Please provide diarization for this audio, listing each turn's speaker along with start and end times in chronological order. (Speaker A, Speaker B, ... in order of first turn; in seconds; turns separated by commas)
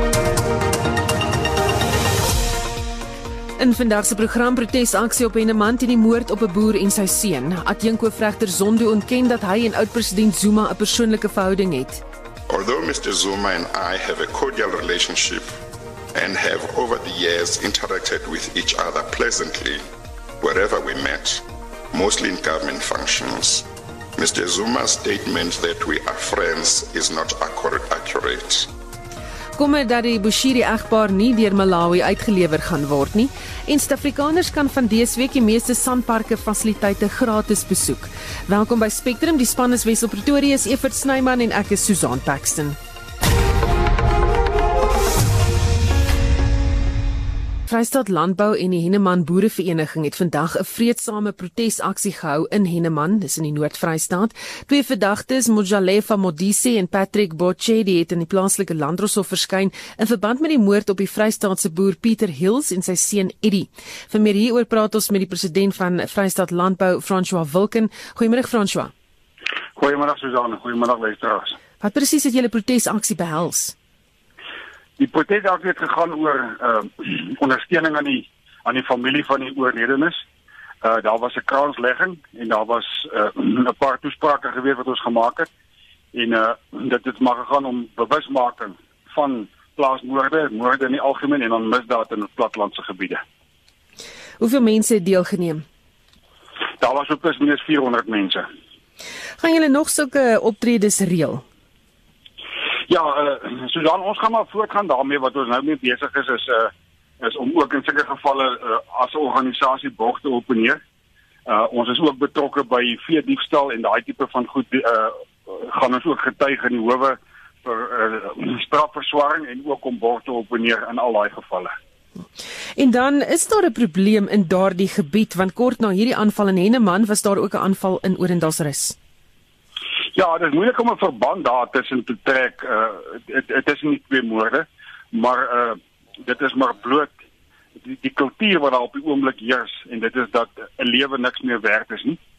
Speaker A: 3.6-12.0, Speaker B: 12.5-15.6, Speaker B: 16.1-19.8, Speaker B: 20.4-23.7, Speaker B: 24.2-28.7, Speaker A: 29.6-42.8, Speaker A: 47.7-68.9, Speaker C: 69.8-71.5, Speaker A: 71.8-73.8, Speaker C: 75.0-80.2, Speaker C: 80.8-85.5, Speaker C: 86.1-93.2, Speaker A: 94.4-95.7, Speaker C: 96.8-98.5, Speaker A: 99.4-101.4, Speaker C: 102.9-110.8, Speaker C: 111.5-121.7, Speaker A: 122.8-129.0, Speaker C: 130.2-137.1, Speaker C: 137.9-142.2